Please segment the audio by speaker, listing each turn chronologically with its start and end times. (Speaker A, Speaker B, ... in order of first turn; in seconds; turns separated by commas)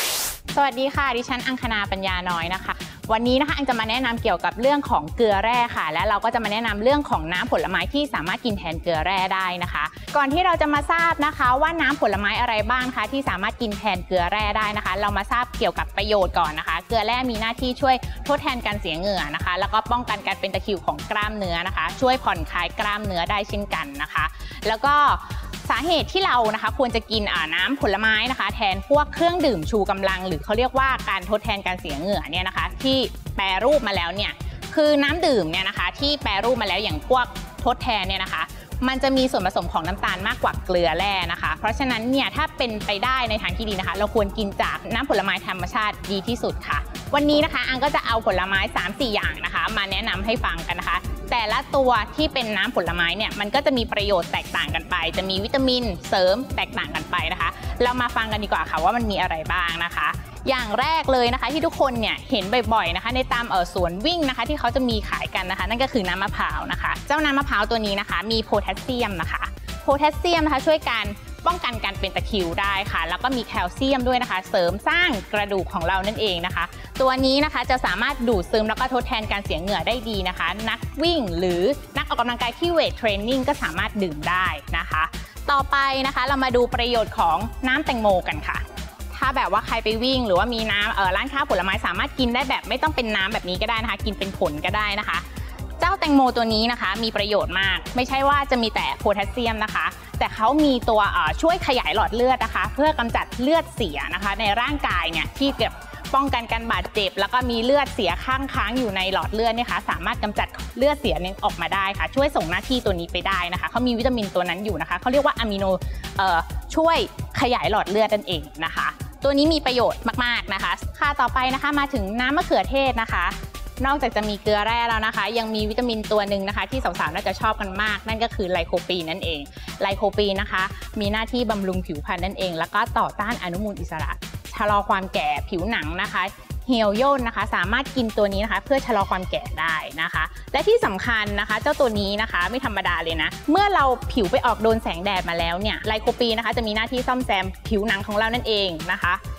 Speaker A: 0.5-95.2, Speaker A: 95.8-149.2